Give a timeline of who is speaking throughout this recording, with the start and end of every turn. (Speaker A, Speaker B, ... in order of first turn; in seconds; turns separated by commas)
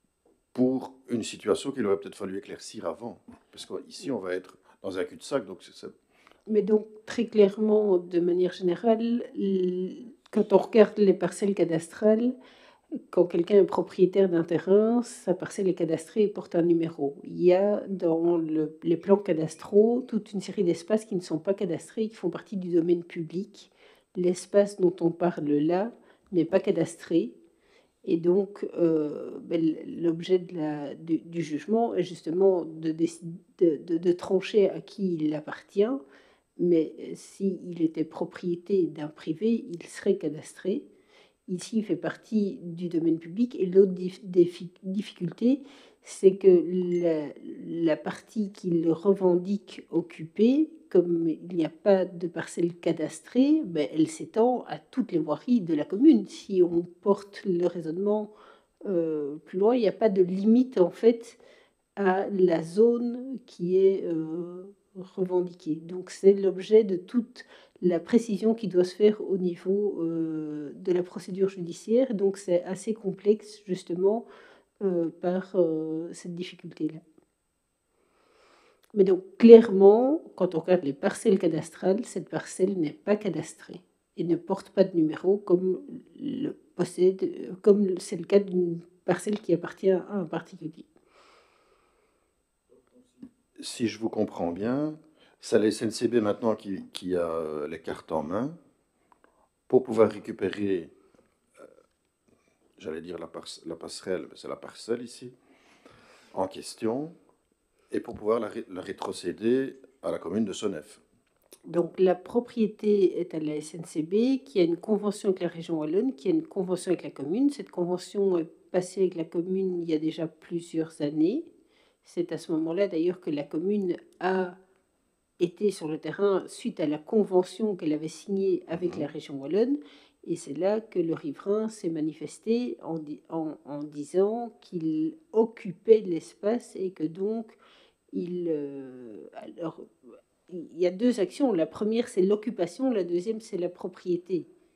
Speaker A: 0.5-5.9, Speaker B: 6.5-12.4, Speaker B: 13.1-27.3, Speaker B: 28.1-36.0, Speaker B: 36.6-40.9, Speaker B: 41.5-58.3, Speaker B: 58.9-61.4, Speaker B: 62.0-74.3, Speaker B: 74.8-77.0, Speaker B: 78.9-90.9, Speaker A: 93.6-98.6, Speaker A: 99.7-100.9, Speaker A: 102.8-105.4, Speaker A: 106.3-107.2, Speaker A: 107.9-111.0, Speaker B: 111.7-121.5, Speaker B: 122.0-124.6, Speaker B: 125.4-137.6, Speaker A: 128.7-129.1, Speaker B: 138.1-139.9, Speaker B: 140.5-144.5